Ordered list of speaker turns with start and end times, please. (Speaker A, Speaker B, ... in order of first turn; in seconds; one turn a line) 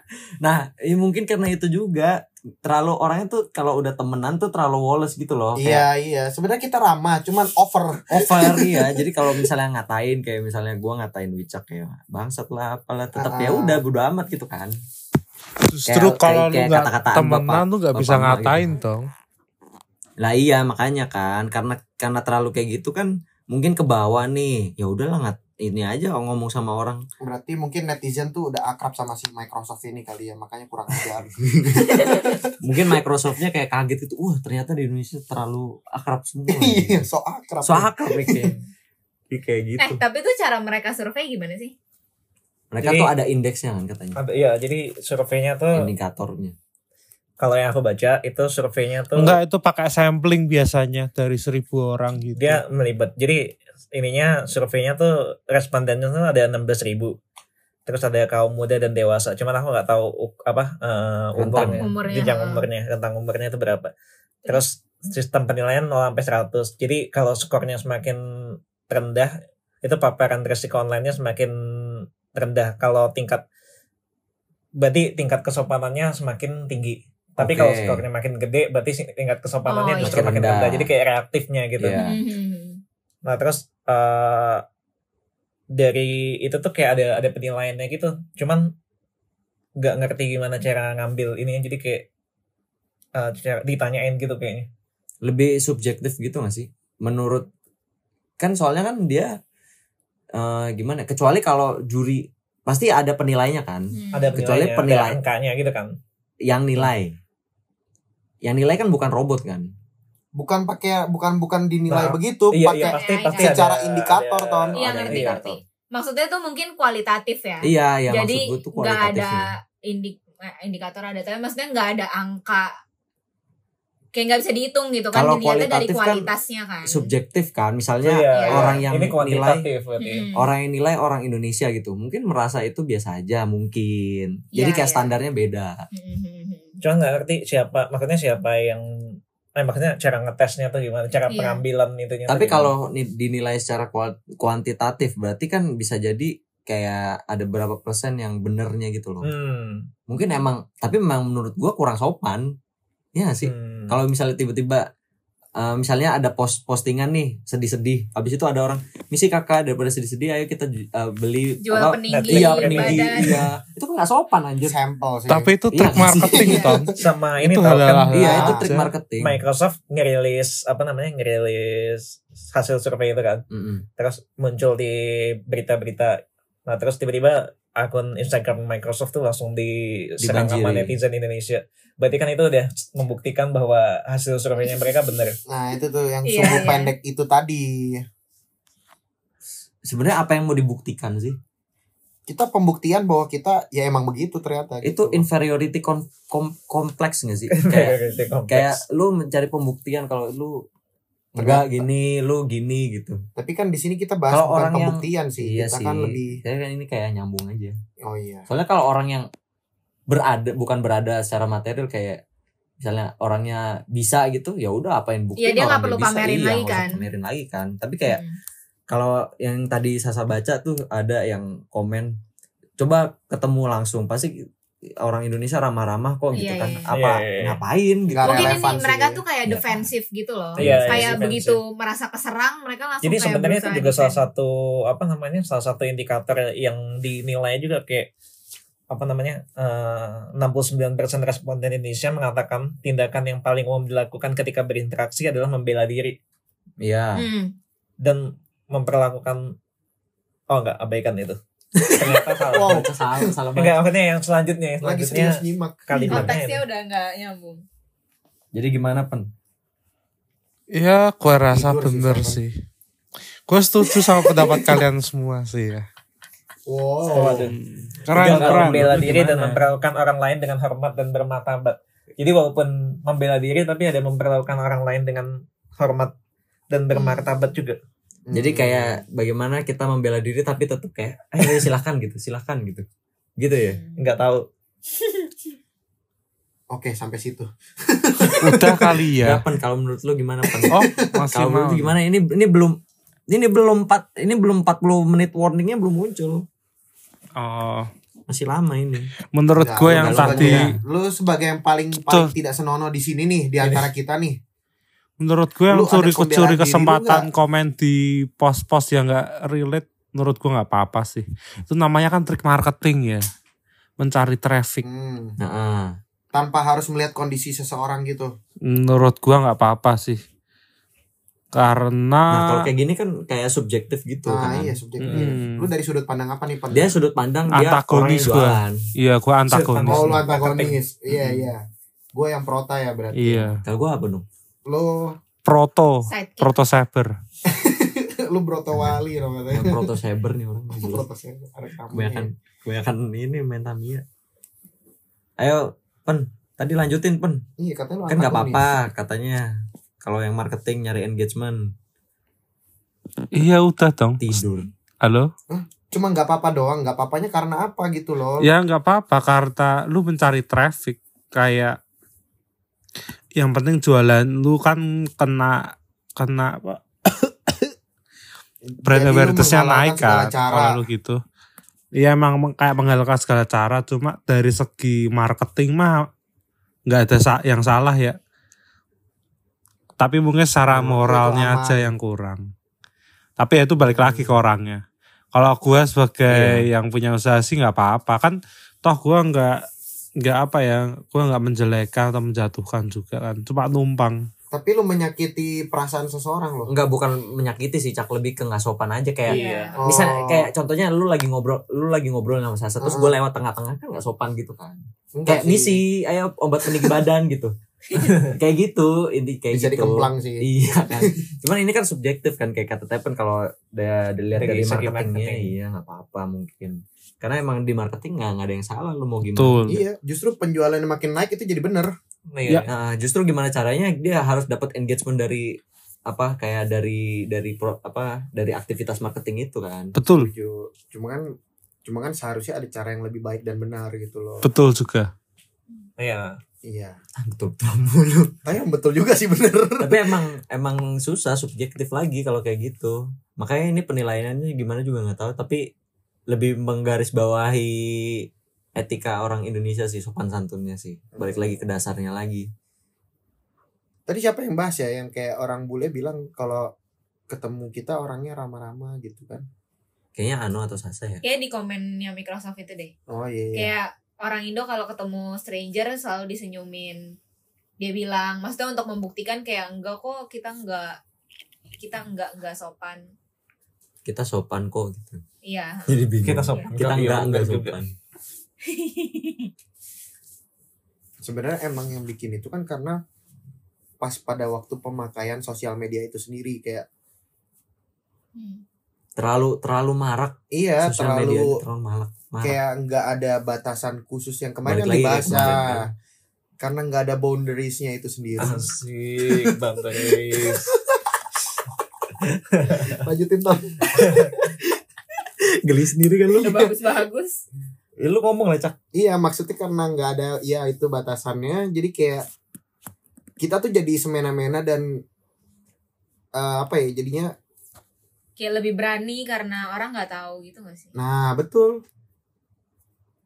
Speaker A: 0.4-5.9
Speaker B: 5.6-9.0
Speaker A: 8.1-14.8
Speaker B: 13.2-13.8
Speaker C: 15.7-19.1
Speaker A: 15.9-18.7
Speaker A: 20.2-27.1
Speaker B: 27.2-32.5
Speaker D: 31.8-32.4
Speaker A: 32.6-37.1
Speaker B: 36.5-38.5
Speaker A: 37.6-38.5
Speaker A: 39.3-40.0
Speaker D: 39.8-41.7
Speaker A: 42.7-44.2
Speaker E: 42.8-43.1
Speaker E: 44.2-45.9
Speaker A: 45.7-46.5
Speaker E: 47.4-49.4
Speaker C: 49.2-52.6
Speaker E: 52.4-57.2
Speaker E: 57.9-63.9
Speaker A: 61.4-61.9
Speaker D: 61.7-62.7
Speaker E: 64.5-73.4
Speaker E: 74.8-82.0
Speaker A: 77.4-78.0
Speaker D: 79.7-80.4
Speaker A: 80.0-80.9
Speaker A: 81.8-82.2
Speaker D: 82.0-82.8
Speaker E: 83.2-84.6
Speaker E: 85.8-88.7
Speaker E: 89.8-92.1
Speaker E: 93.2-94.7
Speaker A: 95.2-97.5
Speaker A: 98.4-99.3
Speaker A: 100.3-105.2
Speaker D: 103.9-104.4
Speaker E: 104.1-106.0
Speaker A: 106.5-107.2
Speaker A: 108.4-109.7
Speaker B: 110.4-114.8
Speaker E: 111.9-115.4
Speaker D: 112.8-113.6
Speaker D: 114.8-122.7
Speaker A: 114.8-115.6
Speaker A: 117.6-119.5
Speaker D: 124.1-127.1
Speaker A: 125.1-126.3
Speaker A: 126.8-129.7
Speaker E: 128.0-130.3
Speaker D: 128.3-128.8
Speaker D: 130.0-130.5
Speaker A: 130.3-135.9
Speaker D: 134.5-135.2
Speaker D: 135.9-136.8
Speaker E: 136.8-138.9
Speaker E: 139.6-142.7
Speaker D: 141.3-141.6
Speaker A: 142.3-149.3
Speaker E: 149.2-149.9
Speaker A: 150.1-152.6
Speaker A: 153.2-154.9
Speaker E: 153.4-154.0
Speaker A: 155.6-164.7
Speaker D: 161.6-163.5
Speaker E: 162.1-163.1
Speaker B: 164.6-166.9
Speaker C: 165.3-168.9
Speaker A: 165.7-166.5
Speaker E: 167.0-168.2
Speaker A: 168.1-169.4
Speaker B: 168.2-168.6
Speaker E: 169.2-173.4
Speaker A: 173.5-173.8
Speaker E: 174.0-185.4
Speaker A: 180.2-180.9
Speaker B: 185.5-188.0
Speaker D: 186.2-186.9
Speaker A: 189.8-191.4
Speaker B: 192.3-195.3
Speaker A: 194.8-200.7
Speaker E: 197.5-198.8
Speaker B: 201.3-201.9
Speaker A: 201.4-203.2
Speaker B: 203.4-206.4
Speaker A: 204.3-207.8
Speaker B: 208.0-208.5
Speaker A: 208.5-209.3
Speaker A: 210.1-212.2
Speaker A: 212.8-218.2
Speaker D: 215.4-217.1
Speaker D: 218.1-218.4
Speaker A: 218.9-222.2
Speaker A: 222.8-224.5
Speaker A: 225.0-228.6
Speaker D: 226.3-226.9
Speaker E: 226.9-227.6
Speaker B: 228.1-229.2
Speaker D: 228.2-234.2
Speaker A: 229.5-229.9
Speaker E: 230.6-231.6
Speaker A: 230.6-231.2
Speaker E: 233.0-238.1
Speaker E: 238.9-246.2
Speaker A: 246.8-247.2
Speaker D: 247.2-247.5
Speaker E: 248.0-249.6
Speaker E: 250.5-252.9
Speaker A: 251.8-253.8
Speaker B: 252.5-253.3
Speaker E: 253.6-256.6
Speaker B: 254.8-256.4
Speaker D: 255.9-257.6
Speaker A: 258.5-259.3
Speaker C: 260.7-262.6
Speaker B: 261.5-262.4
Speaker C: 263.5-265.9
Speaker D: 264.2-264.8
Speaker B: 266.7-267.5
Speaker E: 267.1-267.6
Speaker C: 267.3-269.6
Speaker A: 268.1-269.5
Speaker E: 268.1-276.1
Speaker E: 276.7-277.8
Speaker D: 276.9-277.4
Speaker B: 278.3-279.0
Speaker A: 278.3-282.9
Speaker A: 283.4-283.8
Speaker E: 284.0-284.5
Speaker B: 286.7-289.0
Speaker C: 288.4-289.4
Speaker A: 289.2-290.8
Speaker B: 290.5-291.1
Speaker C: 290.7-292.0
Speaker A: 291.3-296.4
Speaker C: 297.4-297.9
Speaker A: 298.3-299.1
Speaker C: 299.3-300.7
Speaker B: 299.6-304.4
Speaker A: 299.9-300.8
Speaker C: 302.1-302.3
Speaker C: 305.2-313.2
Speaker B: 305.7-307.3
Speaker C: 314.0-314.8
Speaker B: 314.8-315.4
Speaker A: 315.4-316.0
Speaker B: 316.3-318.3
Speaker C: 318.7-320.2
Speaker C: 321.5-322.7
Speaker A: 322.3-325.2
Speaker B: 324.3-326.9
Speaker C: 325.0-325.7
Speaker A: 326.7-328.8
Speaker C: 327.5-330.2
Speaker E: 329.5-330.8
Speaker B: 329.9-331.6
Speaker A: 331.1-331.5
Speaker B: 332.1-333.5
Speaker C: 333.1-333.6
Speaker A: 333.6-334.2
Speaker B: 334.7-335.2
Speaker C: 335.4-337.1
Speaker D: 336.1-336.5
Speaker B: 337.5-339.9
Speaker A: 339.5-341.0
Speaker B: 340.8-342.3
Speaker A: 341.9-344.0
Speaker A: 345.4-347.5
Speaker B: 347.6-348.8
Speaker A: 348.1-351.7
Speaker C: 353.3-354.4
Speaker A: 354.2-354.7
Speaker C: 355.0-355.3
Speaker B: 355.5-358.5
Speaker C: 358.4-361.8
Speaker C: 363.4-367.7
Speaker B: 368.7-370.8
Speaker C: 368.9-371.2
Speaker C: 372.0-376.1
Speaker C: 376.9-378.2
Speaker C: 380.0-382.4
Speaker B: 380.7-381.9
Speaker C: 383.4-384.8
Speaker B: 383.8-384.4
Speaker C: 385.3-389.6
Speaker A: 386.3-386.7
Speaker C: 390.2-394.3
Speaker B: 394.5-396.7
Speaker A: 396.7-407.6
Speaker D: 399.3-399.8
Speaker E: 399.3-399.8
Speaker B: 399.8-400.5
Speaker B: 402.8-403.1
Speaker B: 405.1-405.8
Speaker D: 407.9-408.2
Speaker E: 408.0-408.3
Speaker A: 408.2-419.8
Speaker B: 409.5-411.2
Speaker E: 414.4-415.5
Speaker C: 419.3-419.8
Speaker B: 419.7-421.9
Speaker E: 422.3-422.7
Speaker A: 422.7-430.0
Speaker C: 430.0-430.3
Speaker B: 430.1-431.2
Speaker B: 431.9-434.5
Speaker C: 434.4-435.1
Speaker E: 436.0-436.4
Speaker B: 436.6-437.0
Speaker A: 437.2-438.4
Speaker B: 438.4-440.2
Speaker A: 439.8-445.7
Speaker A: 446.3-452.5
Speaker B: 451.2-451.6
Speaker B: 454.1-456.7
Speaker B: 457.3-459.4
Speaker A: 460.1-461.2
Speaker D: 461.2-462.9
Speaker B: 463.1-463.7
Speaker D: 463.5-467.1
Speaker D: 467.8-471.0
Speaker D: 471.8-473.1
Speaker A: 474.1-475.2
Speaker D: 475.4-476.8
Speaker A: 475.9-477.9
Speaker E: 476.2-477.8
Speaker D: 478.6-479.5
Speaker B: 481.2-483.0
Speaker B: 484.0-486.9
Speaker D: 488.4-488.6
Speaker A: 489.2-492.6
Speaker B: 490.5-491.6
Speaker B: 492.4-495.9
Speaker A: 494.7-495.8
Speaker B: 496.6-498.6
Speaker A: 498.4-498.7
Speaker E: 498.4-500.7
Speaker E: 502.5-503.0
Speaker B: 502.9-503.8
Speaker A: 503.8-504.6
Speaker E: 504.0-504.3
Speaker A: 505.2-506.8
Speaker D: 506.3-507.4
Speaker A: 508.0-508.8
Speaker B: 508.9-512.2
Speaker B: 513.4-514.9
Speaker B: 516.4-517.3
Speaker D: 518.4-520.9
Speaker B: 521.0-521.8